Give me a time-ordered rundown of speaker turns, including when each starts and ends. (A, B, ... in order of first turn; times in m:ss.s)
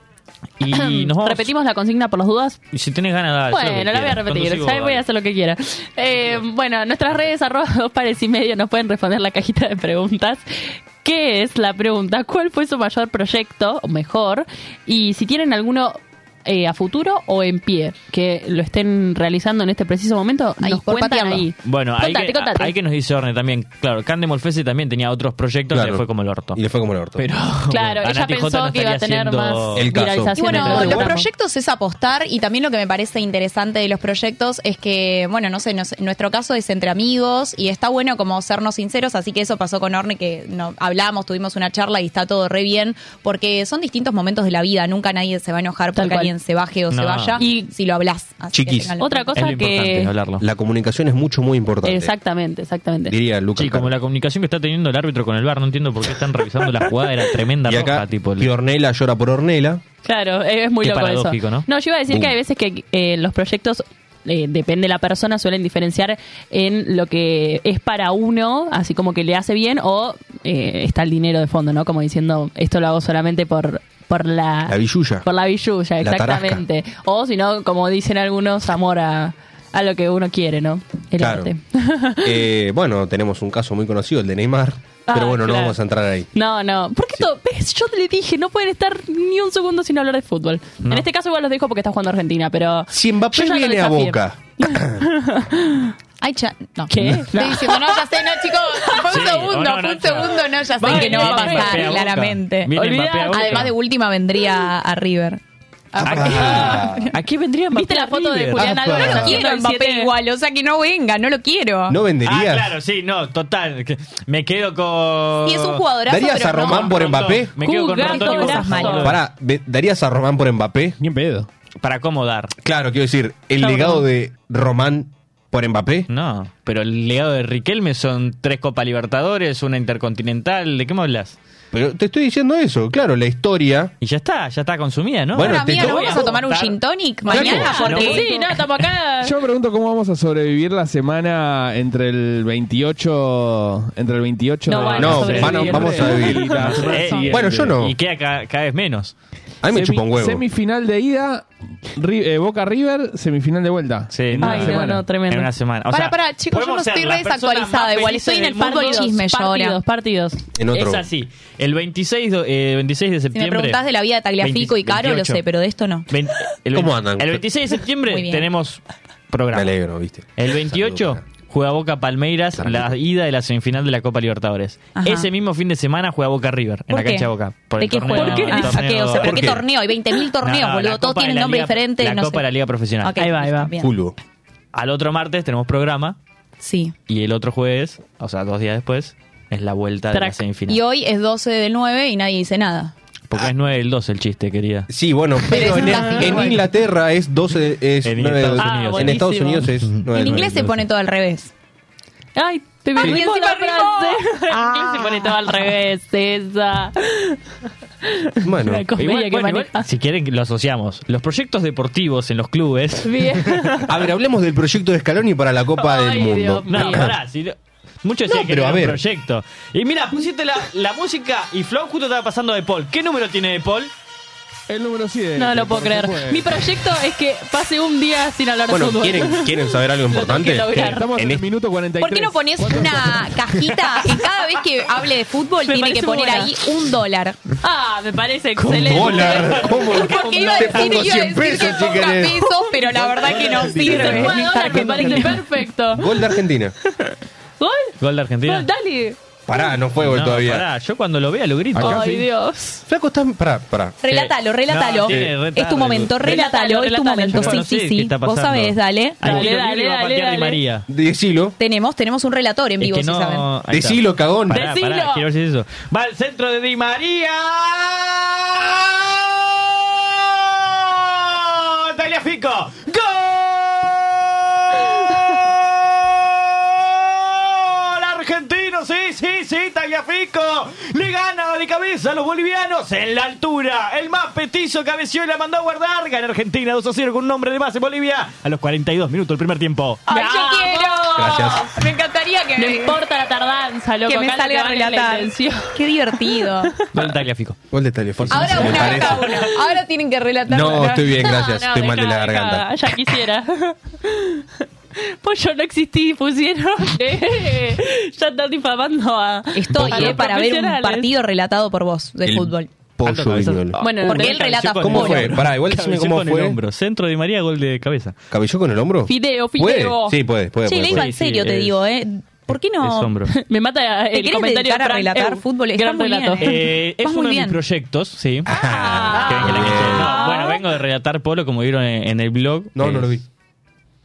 0:00.6-0:01.5 A
0:00.7-0:02.6 B
0:02.7-0:05.0 A
0:03.5-0:22.7 B
0:20.6-0:21.5 C
0:21.6-0:26.6 A
0:25.7-0:27.3 D
0:27.2-0:29.9 A
0:27.7-0:31.3 B
0:29.8-0:31.1 D
0:30.4-0:49.4 C
0:30.5-0:31.1 A
0:46.0-0:46.3 B
0:46.9-0:47.4 A
0:47.4-0:47.7 B
0:48.5-0:48.9 D
0:49.0-0:50.1 B
0:49.4-0:50.4 A
0:50.4-0:52.1 D
0:51.8-0:53.2 B
0:53.1-0:53.9 D
0:53.6-0:58.5 A
0:57.6-0:59.8 D
1:00.0-1:22.4 B
1:00.8-1:01.7 A
1:02.1-1:02.4 D
1:14.7-1:15.3 D
1:16.0-1:16.6 D
1:21.2-1:21.5 D
1:22.2-1:26.3 D
1:25.1-1:25.8 B
1:26.3-1:35.9 B
1:32.9-1:35.0 D
1:36.2-1:42.7 C
1:36.9-1:38.1 B
1:38.7-1:39.1 B
1:39.1-1:43.8 A
1:40.8-1:42.0 B
1:42.7-1:43.7 B
1:43.3-1:45.4 C
1:45.9-1:47.1 C
1:46.0-1:47.2 D
1:46.0-1:48.6 A
1:46.3-1:46.8 B
1:47.7-1:50.1 B
1:48.6-1:49.4 D
1:48.9-1:52.0 C
1:51.9-1:52.8 D
1:52.2-1:55.9 A
1:55.4-1:57.1 C
1:56.1-1:57.5 D
1:56.8-1:59.2 A
1:57.6-1:59.1 B
1:58.0-1:59.1 C
1:59.0-2:01.0 D
2:01.0-2:01.5 E
2:01.8-2:02.5 A
2:02.6-2:06.1 D
2:06.1-2:11.4 A
2:11.7-2:13.9 D
2:14.0-2:16.8 A
2:15.3-2:16.4 D
2:15.4-2:18.5 C
2:17.3-2:18.2 D
2:17.3-2:19.3 B
2:17.3-2:18.2 A
2:19.2-2:27.8 E
2:24.7-2:26.6 B
2:24.8-2:29.1 A
2:25.0-2:26.7 D
2:27.0-2:27.3 C
2:27.3-2:28.0 D
2:29.6-2:30.4 D
2:29.7-2:35.0 E
2:34.1-2:39.0 A
2:34.4-2:35.5 B
2:35.9-2:39.8 C
2:38.3-2:40.4 B
2:40.6-2:41.1 D
2:40.7-2:43.8 A
2:43.3-2:46.1 C
2:44.4-2:45.4 A
2:46.1-2:49.8 A
2:46.7-2:47.4 D
2:48.1-2:48.5 C
2:49.5-2:51.2 D
2:50.4-2:59.6 A
2:52.6-2:53.0 D
2:55.0-2:55.3 C
2:56.9-3:02.4 C
2:58.2-2:58.8 B
2:59.2-2:59.6 D
3:00.4-3:03.2 A
3:03.0-3:03.9 C
3:03.2-3:03.7 B
3:03.8-3:04.2 D
3:04.7-3:06.2 A
3:06.6-3:06.9 C
3:07.1-3:10.8 A
3:10.1-3:10.4 B
3:10.7-3:12.9 C
3:13.3-3:14.9 A
3:14.9-3:20.8 D
3:15.5-3:16.6 C
3:15.7-3:16.4 B
3:18.0-3:19.2 A
3:18.6-3:19.7 B
3:19.8-3:20.1 A
3:20.1-3:21.5 C
3:22.4-3:27.4 B
3:23.0-3:25.7 C
3:28.0-3:29.9 B
3:28.4-3:28.9 D
3:29.0-3:33.6 A
3:33.0-3:33.9 B
3:33.9-3:37.1 D
3:35.8-3:37.1 B
3:36.7-3:43.9 A
3:38.3-3:39.0 D
3:44.7-3:46.7 E
3:45.4-3:51.1 B
3:48.7-3:51.5 D
3:50.7-3:53.4 E
3:52.0-3:57.4 C
3:55.6-3:56.5 B
3:57.6-4:01.8 B
3:58.6-4:06.7 D
3:59.2-4:05.4 C
4:03.4-4:06.2 B
4:06.9-4:07.9 B
4:08.0-4:08.7 A
4:08.4-4:09.2 B
4:09.5-4:10.7 D
4:10.0-4:12.2 A
4:11.8-4:12.2 E
4:11.8-4:12.8 B
4:12.9-4:14.0 D
4:14.0-4:19.5 C
4:14.1-4:16.4 A
4:15.1-4:15.3 D
4:16.2-4:17.6 B
4:17.3-4:20.9 A
4:19.2-4:20.6 B
4:20.9-4:21.6 D
4:21.6-4:23.5 C
4:22.8-4:50.0 A
4:23.7-4:24.6 D
4:24.5-4:25.2 B
4:50.1-4:51.8 B
4:50.1-4:53.0 C
4:51.2-4:51.7 D
4:52.6-4:56.9 B
4:54.1-4:56.7 C
4:56.9-4:57.6 A
4:57.7-4:59.4 D
4:58.2-4:59.1 A
4:58.3-5:01.3 C
4:58.7-4:59.5 B
5:00.5-5:02.9 D
5:01.1-5:11.1 B
5:09.5-5:12.7 C
5:09.8-5:10.1 A
5:12.2-5:13.8 D
5:13.0-5:18.2 A
5:13.8-5:14.6 B
5:14.0-5:15.3 C
5:14.8-5:16.6 D
5:18.3-5:21.1 D
5:19.1-5:20.2 B
5:20.6-5:23.1 C
5:20.8-5:21.8 A
5:22.8-5:23.3 A
5:23.3-5:26.5 B
5:24.1-5:27.6 C
5:26.4-5:28.5 A
5:28.4-5:30.1 D
5:28.6-5:29.5 C
5:28.7-5:30.6 B
5:29.2-5:33.1 A
5:32.8-5:33.2 D